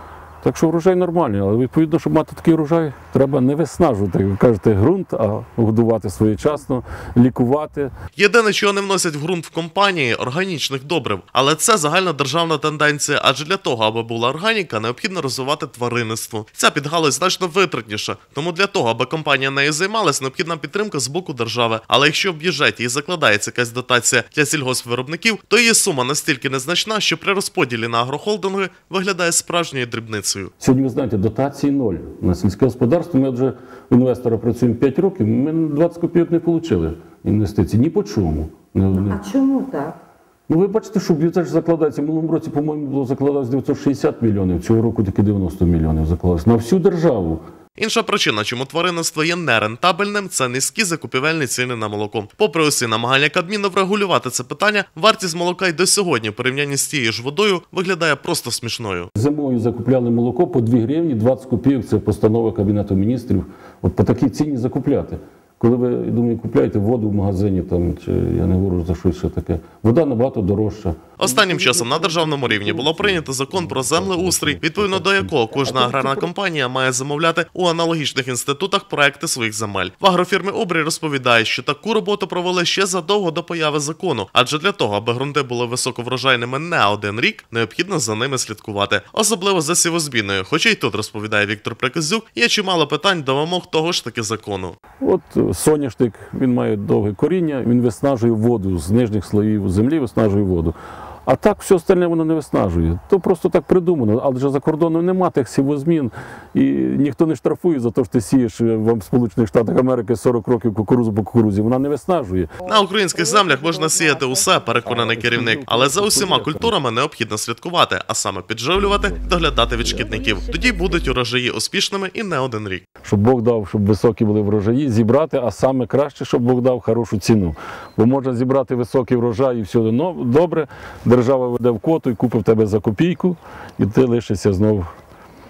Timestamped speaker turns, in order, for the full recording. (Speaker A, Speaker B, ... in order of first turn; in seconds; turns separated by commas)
Speaker A: 0.4-7.9, Speaker B: 8.2-30.5, Speaker A: 30.6-39.2, Speaker C: 38.9-40.0, Speaker A: 40.5-47.4, Speaker B: 47.8-59.1, Speaker A: 59.1-75.4, Speaker B: 71.2-94.8, Speaker C: 75.5-76.3, Speaker A: 95.0-112.5, Speaker C: 112.6-114.8, Speaker B: 112.6-122.8, Speaker A: 114.8-116.8, Speaker A: 118.8-120.1, Speaker C: 119.8-121.2, Speaker A: 123.0-134.9